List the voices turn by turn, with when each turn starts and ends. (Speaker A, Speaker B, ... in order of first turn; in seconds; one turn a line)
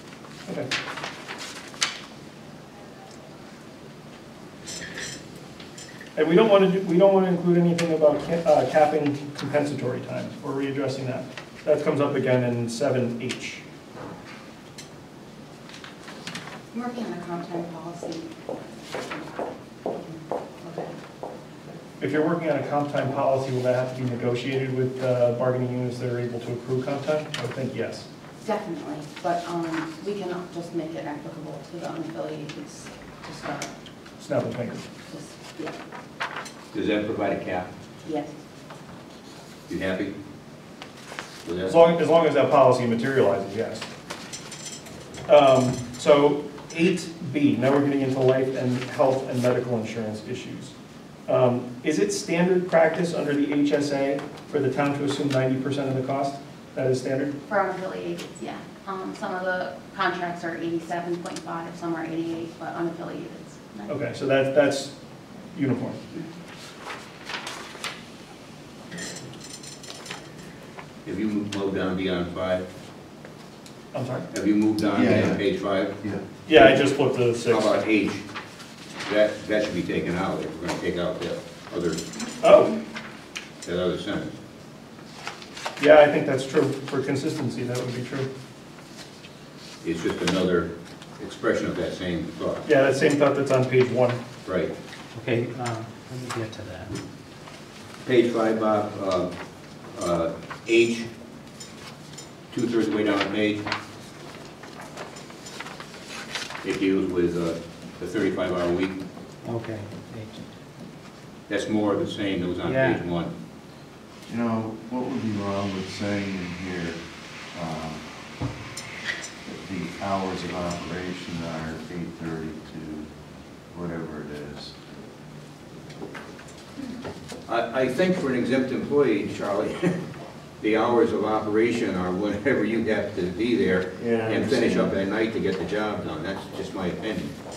Speaker A: 6.2-13.6
Speaker B: 16.7-20.9
Speaker A: 22.0-28.1
Speaker B: 28.4-33.7
Speaker A: 34.2-34.9
Speaker B: 35.1-35.8
Speaker C: 36.7-37.7
Speaker B: 38.0-38.3
Speaker C: 39.7-40.1
Speaker C: 41.5-41.8
Speaker A: 41.7-43.9
Speaker A: 45.3-50.8
Speaker A: 51.3-57.4
Speaker B: 57.5-64.0
Speaker A: 63.9-64.9
Speaker A: 65.5-66.1
Speaker C: 71.0-72.6
Speaker A: 73.9-74.3
Speaker C: 74.3-75.9
Speaker D: 74.9-75.4
Speaker D: 76.0-76.2
Speaker A: 76.5-77.8
Speaker C: 77.5-78.2
Speaker C: 79.0-82.0
Speaker A: 82.4-82.7
Speaker C: 83.7-84.3
Speaker A: 85.8-88.3
Speaker C: 89.8-92.7
Speaker A: 92.7-94.2
Speaker C: 94.5-94.7
Speaker E: 95.2-97.0
Speaker C: 98.0-99.3
Speaker C: 99.9-101.1
Speaker C: 102.5-103.7
Speaker C: 106.6-109.0
Speaker E: 109.4-110.5
Speaker C: 111.5-113.3
Speaker E: 112.6-113.0
Speaker D: 114.3-117.0
Speaker D: 117.5-118.0
Speaker D: 119.5-123.1
Speaker D: 123.7-124.8
Speaker C: 127.5-130.0
Speaker C: 130.6-137.3
Speaker D: 134.0-134.9